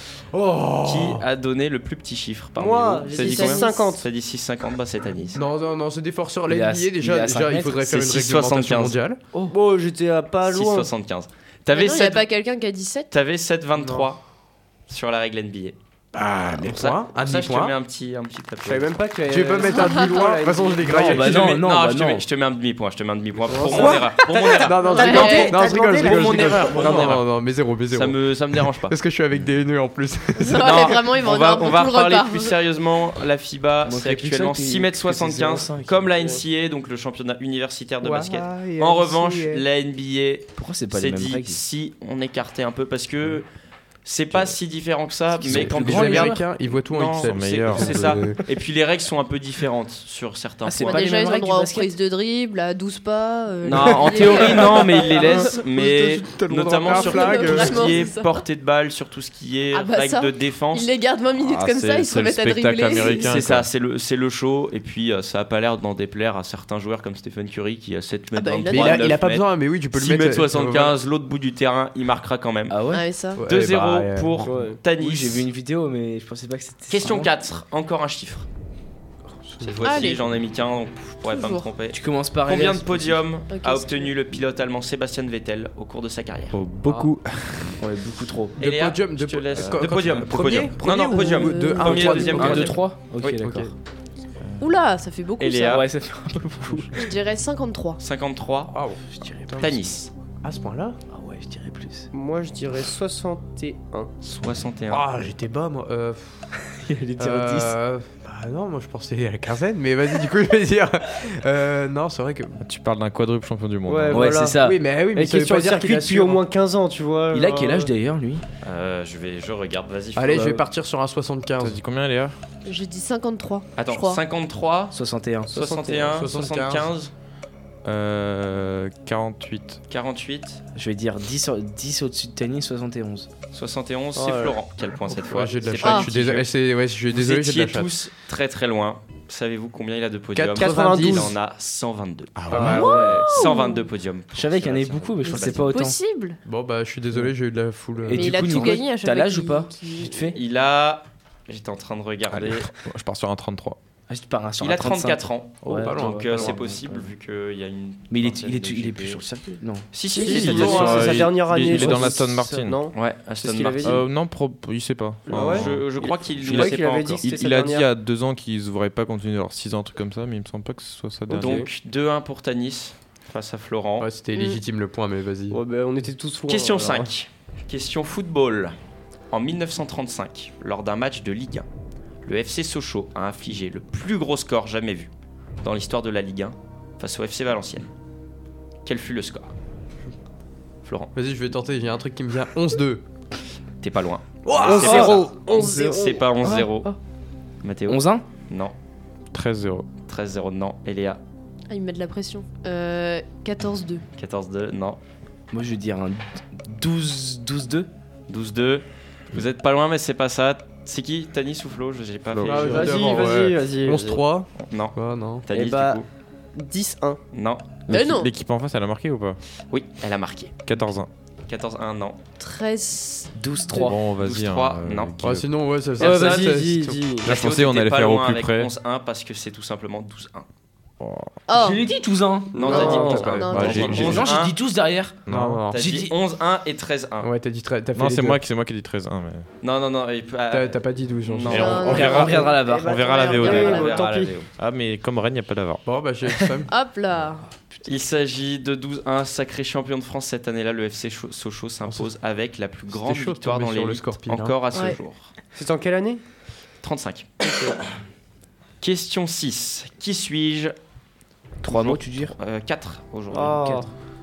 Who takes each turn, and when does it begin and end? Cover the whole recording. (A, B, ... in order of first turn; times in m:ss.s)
0:00.3-0:01.2 A
0:00.8-0:05.4 B
0:02.6-0:04.0 C
0:03.1-0:03.9 D
0:05.3-0:09.2 A
0:06.5-0:08.1 E
0:08.0-0:09.0 B
0:09.5-0:10.9 C
0:10.5-0:12.3 B
0:11.7-0:13.1 D
0:13.1-0:14.2 B
0:13.8-0:14.1 A
0:14.9-0:15.8 B
0:16.1-0:17.7 A
0:16.6-0:19.0 B
0:18.6-0:21.5 C
0:19.3-0:21.5 A
0:19.7-0:20.1 D
0:20.8-0:22.3 E
0:21.1-0:27.3 B
0:23.5-0:27.1 C
0:23.5-0:30.8 A
0:25.0-0:25.6 D
0:27.9-0:28.9 B
0:30.4-0:32.6 D
0:30.5-0:43.4 B
0:33.8-0:36.3 E
0:38.0-0:39.6 A
0:40.5-0:41.6 E
0:44.0-0:51.0 B
0:45.3-0:46.4 E
0:45.5-0:48.4 A
0:47.1-0:48.4 F
0:50.6-0:51.9 E
0:50.8-0:55.6 D
0:53.6-1:00.9 B
0:53.7-0:57.9 A
0:56.8-0:58.4 D
0:59.7-1:03.4 D
1:01.4-1:03.7 F
1:02.9-1:12.8 B
1:08.3-1:09.1 D
1:08.7-1:11.0 A
1:12.7-1:13.1 E
1:12.9-1:13.4 D
1:13.4-1:14.5 A
1:13.4-1:15.5 B
1:14.4-1:14.8 C
1:14.9-1:17.3 E
1:16.9-1:18.5 B
1:19.5-1:19.9 A
1:19.6-1:26.6 B
1:19.8-1:20.3 D
1:21.2-1:21.7 D
1:21.9-1:23.3 E
1:23.5-1:24.1 D
1:26.5-1:27.8 F
1:26.9-1:27.1 A
1:27.8-1:28.6 E
1:28.6-1:32.8 A
1:28.6-1:33.4 B
1:31.0-1:32.7 D
1:32.3-1:33.7 E
1:33.4-1:33.7 A
1:34.6-1:35.9 D
1:35.4-1:35.9 B
1:35.7-1:37.1 E
1:37.0-1:38.0 D
1:38.0-1:38.8 B
1:38.7-1:39.8 A
1:39.1-1:39.9 E
1:39.6-1:40.1 B
1:40.4-1:41.0 A
1:41.1-1:42.1 E
1:42.1-1:44.1 C
1:44.2-1:45.0 B
1:44.9-1:46.5 A
1:46.6-1:47.8 E
1:47.2-1:52.6 A
1:52.6-1:54.4 F
1:53.8-1:54.6 C
1:54.1-1:54.8 E
1:54.5-1:56.4 A
1:55.1-1:57.9 C
1:57.3-1:58.4 E
1:58.6-2:00.6 B
2:00.1-2:01.8 A
2:00.3-2:00.6 E
2:01.6-2:02.4 F
2:02.6-2:04.2 D
2:03.8-2:07.1 B
2:04.9-2:05.5 E
2:05.5-2:06.2 C
2:06.1-2:06.9 A
2:07.8-2:09.8 F
2:09.9-2:10.6 B
2:10.7-2:13.3 E
2:13.5-2:16.5 B
2:14.1-2:14.6 C
2:15.1-2:17.9 A
2:15.8-2:16.1 D
2:17.1-2:25.8 B
2:20.4-2:21.3 A
2:20.6-2:21.3 C
2:22.4-2:23.0 F
2:22.5-2:23.0 A
2:22.5-2:23.5 E
2:22.7-2:23.9 D
2:24.3-2:26.0 E
2:25.2-2:26.4 D
2:26.4-2:28.8 A
2:28.0-2:30.4 E
2:28.1-2:30.2 D
2:30.3-2:32.7 B
2:32.3-2:33.8 F
2:34.1-2:37.1 E
2:34.6-2:39.2 B
2:35.6-2:36.6 A
2:38.1-2:39.9 E
2:39.9-2:41.3 B
2:40.1-2:44.0 C
2:40.2-2:42.8 F
2:41.6-2:42.6 E
2:42.9-2:44.0 B
2:43.8-2:45.8 F
2:45.3-2:47.9 C
2:45.3-2:47.2 B
2:46.5-2:51.6 F
2:51.3-2:51.7 C
2:51.3-2:54.1 B
2:54.0-2:55.6 A
2:55.5-2:57.1 C
2:56.5-2:58.7 B
2:59.3-3:01.7 B
3:02.2-3:05.1 B
3:05.6-3:07.9 B
3:08.8-3:09.5 B
3:10.8-3:11.1 B
3:11.1-3:13.0 A
3:13.8-3:16.9 B
3:14.4-3:15.3 A
3:14.6-3:16.2 C
3:14.6-3:15.2 E
3:16.4-3:17.0 E
3:17.6-3:18.7 B
3:17.9-3:18.2 E
3:19.3-3:19.9 F
3:20.1-3:21.2 B
3:21.7-3:24.0 D
3:24.2-3:25.0 B
3:25.5-3:27.9 E
3:28.3-3:32.8 B
3:32.3-3:33.0 F
3:32.4-3:35.4 A
3:32.4-3:34.2 C
3:34.6-3:36.0 B
3:35.5-3:36.0 C
3:36.5-3:37.2 C
3:37.3-3:37.7 B
3:37.9-3:39.4 F
3:37.9-3:38.3 D
3:39.7-3:40.6 B
3:40.6-3:41.1 F
3:41.5-3:42.2 B
3:42.4-3:44.0 D
3:43.3-3:44.0 E
3:43.7-3:45.5 F
3:44.0-3:45.2 B
3:45.2-3:47.1 A
3:46.0-3:46.5 B
3:46.0-3:47.3 C
3:47.2-3:48.7 F
3:47.2-3:50.5 B
3:51.0-3:51.4 F
3:51.5-3:51.8 D
3:51.5-3:56.1 E
3:52.5-3:53.4 C
3:52.6-3:54.6 B
3:52.7-3:54.2 D
3:53.3-3:54.4 F
3:55.3-3:55.7 F
3:55.3-3:55.8 A
3:55.7-3:57.3 B
3:57.2-3:58.4 A
3:57.9-3:59.5 F
3:59.6-4:02.1 B
4:00.5-4:02.4 A
4:01.4-4:05.8 F
4:01.5-4:04.0 D
4:01.9-4:03.0 E
4:02.2-4:04.4 C
4:03.3-4:04.5 B
4:05.8-4:06.7 A
4:06.7-4:07.5 D
4:07.8-4:15.3 B
4:12.9-4:14.6 A
4:14.7-4:15.0 D
4:15.6-4:16.2 C
4:16.8-4:17.3 B
4:17.4-4:17.8 C
4:18.8-4:20.7 B
4:21.6-4:22.4 E
4:21.6-4:23.6 B
4:23.3-4:23.9 C
4:23.4-4:23.9 E